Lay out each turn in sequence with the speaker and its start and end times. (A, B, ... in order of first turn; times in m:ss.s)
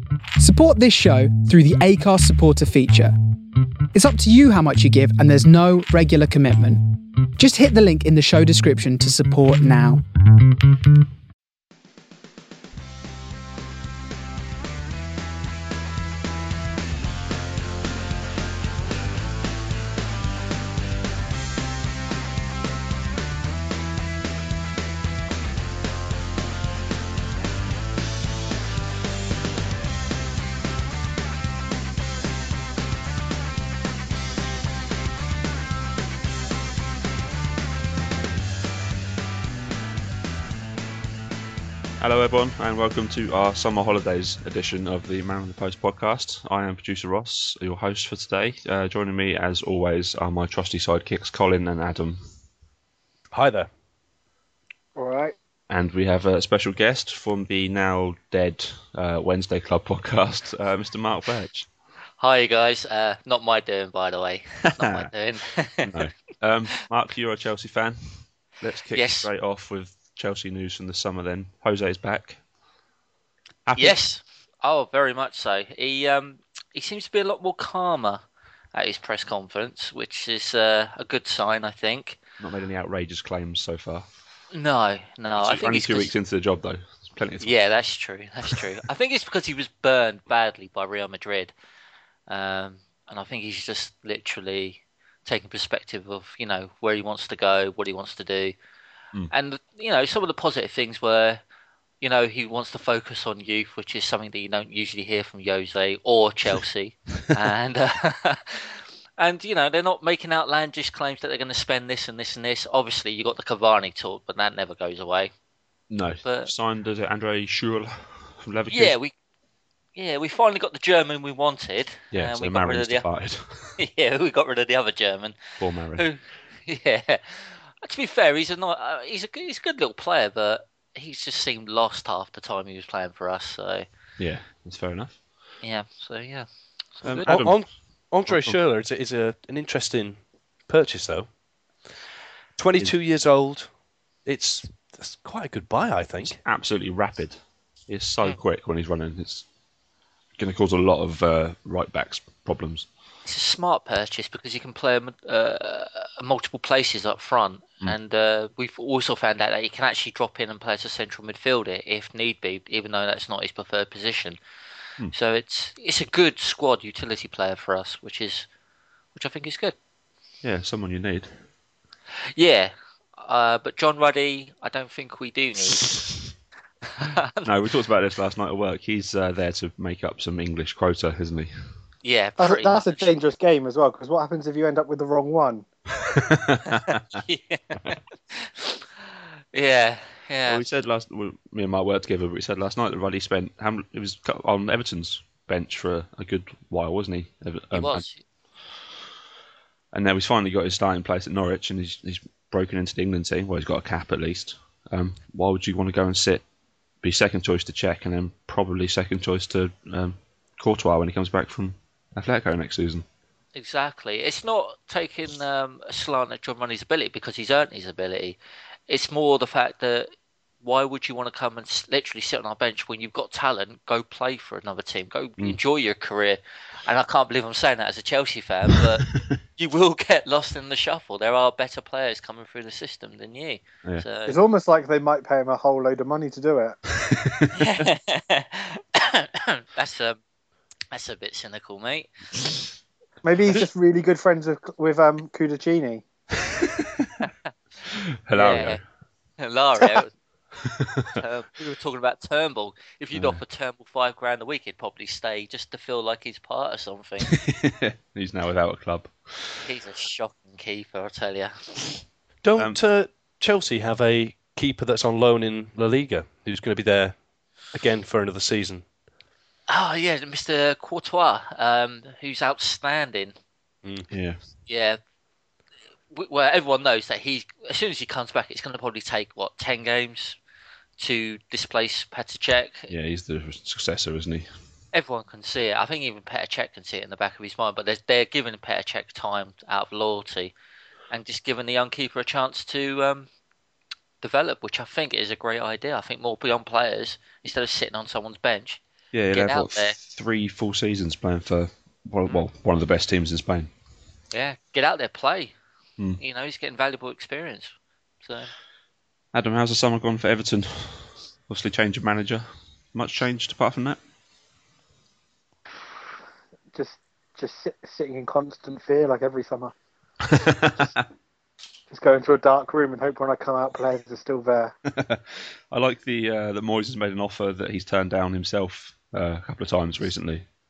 0:00.4-0:03.1 A
0:03.9-0:06.8 A
0:07.4-0:10.0 A
0:42.0-0:52.2 B
0:53.3-0:53.7 C
0:55.0-0:55.3 D
0:55.7-1:01.7 B
1:02.2-1:06.1 E
1:04.8-1:05.1 B
1:05.9-1:12.4 B
1:08.9-1:09.3 E
1:13.6-1:14.0 B
1:13.8-1:18.2 E
1:18.7-1:22.2 E
1:22.4-1:24.0 B
1:24.5-1:26.1 E
1:25.4-1:27.5 B
1:27.4-1:31.5 E
1:32.3-1:38.5 E
1:39.3-1:41.4 E
1:42.0-1:55.3 E
1:55.9-1:58.9 B
1:56.2-1:56.5 E
1:58.7-1:59.1 E
1:59.9-2:03.1 E
2:02.1-2:03.8 B
2:03.8-2:05.4 E
2:05.6-2:06.0 B
2:06.0-2:13.8 E
2:14.2-2:15.2 B
2:15.6-2:17.4 E
2:17.0-2:17.7 B
2:17.2-2:21.3 C
2:18.3-2:18.6 B
2:22.6-2:23.7 C
2:24.2-2:26.4 C
2:26.2-2:29.4 B
2:30.4-2:32.9 B
2:33.2-2:44.4 E
2:45.1-2:48.5 E
2:49.1-2:49.7 E
2:50.4-2:51.3 B
2:52.3-2:55.9 E
2:57.0-2:57.4 E
2:57.4-3:01.5 B
3:02.0-3:03.1 E
3:02.4-3:05.6 D
3:06.1-3:07.0 B
3:06.7-3:10.6 E
3:10.5-3:18.0 B
3:17.7-3:18.2 E
3:19.9-3:26.4 B
3:27.0-3:33.0 B
3:33.5-3:38.4 E
3:38.9-3:40.1 E
3:40.6-3:49.0 E
3:49.0-3:49.3 B
3:49.6-3:54.4 E
3:54.3-3:56.8 D
3:57.1-3:57.5 B
3:57.5-4:00.2 E
4:00.9-4:02.1 E
4:03.2-4:06.0 D
4:06.8-4:07.1 B
4:07.9-4:08.8 B
4:08.3-4:08.8 E
4:09.4-4:10.1 E
4:10.6-4:11.2 B
4:11.1-4:17.3 E
4:13.1-4:13.4 B
4:17.3-4:19.6 B
4:19.6-4:22.0 E
4:22.4-4:27.2 C
4:27.7-4:28.8 C
4:29.7-4:33.3 E
4:34.1-4:34.4 B
4:34.7-4:35.0 E
4:36.1-4:40.4 E
4:41.0-4:42.9 E
4:42.9-4:44.5 B
4:44.9-4:50.5 E
4:51.1-4:53.3 E
4:54.2-5:00.0 E
4:59.1-5:03.7 B
5:04.3-5:05.5 E
5:06.2-5:08.5 E
5:09.3-5:14.0 B
5:16.7-5:19.7 D
5:20.2-5:21.0 B
5:21.9-5:24.7 D
5:24.9-5:30.4 B